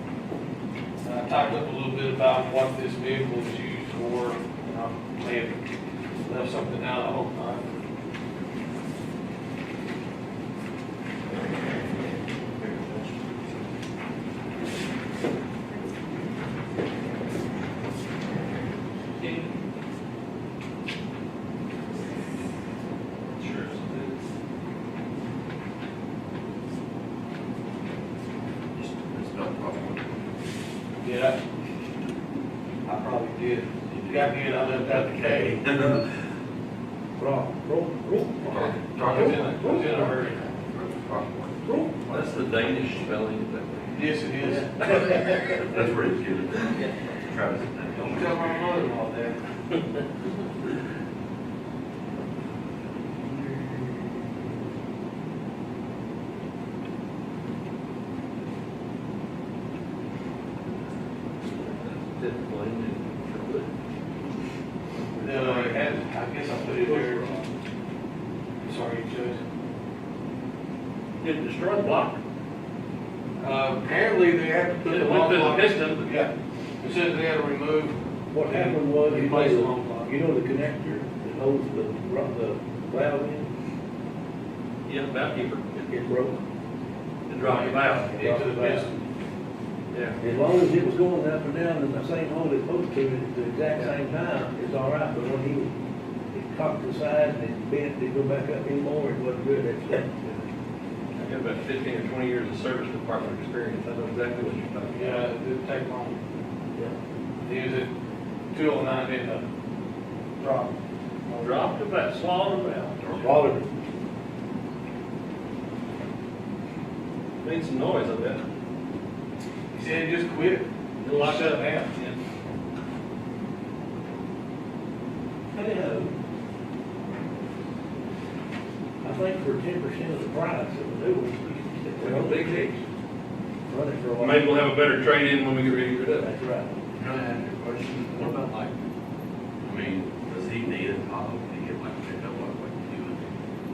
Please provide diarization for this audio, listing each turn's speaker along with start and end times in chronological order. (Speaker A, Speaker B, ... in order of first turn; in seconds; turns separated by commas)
Speaker A: 1.0-5.6, Speaker A: 6.2-7.7, Speaker B: 23.4-23.7, Speaker C: 28.7-30.3, Speaker A: 31.0-31.4, Speaker A: 32.8-35.6, Speaker C: 33.8-36.1, Speaker D: 35.8-36.0, Speaker D: 37.2-40.1, Speaker C: 38.5-42.9, Speaker A: 39.0-40.5, Speaker D: 41.6-42.1, Speaker B: 42.3-43.9, Speaker A: 43.9-45.4, Speaker C: 45.6-48.7, Speaker A: 47.9-49.4, Speaker B: 61.6-63.7, Speaker A: 65.2-67.2, Speaker A: 68.6-69.4, Speaker B: 71.2-72.2, Speaker A: 73.4-80.1, Speaker B: 74.8-76.0, Speaker D: 78.3-83.5, Speaker B: 84.8-85.8, Speaker D: 85.9-86.4, Speaker B: 87.3-88.2, Speaker A: 87.4-89.0, Speaker D: 88.1-88.9, Speaker B: 89.9-90.2, Speaker D: 90.2-95.7, Speaker D: 96.3-100.1, Speaker B: 101.2-105.2, Speaker A: 104.9-106.2, Speaker A: 107.4-107.9, Speaker A: 108.5-109.4, Speaker A: 110.4-110.7, Speaker A: 111.3-111.7, Speaker B: 111.3-113.2, Speaker D: 113.2-113.7, Speaker B: 117.4-118.4, Speaker A: 119.7-121.9, Speaker B: 121.2-122.1, Speaker D: 125.5-126.1, Speaker D: 129.0-132.8, Speaker B: 132.0-132.7, Speaker D: 133.7-134.5, Speaker B: 134.2-136.3, Speaker D: 136.2-136.7, Speaker C: 136.9-138.7, Speaker C: 139.6-143.3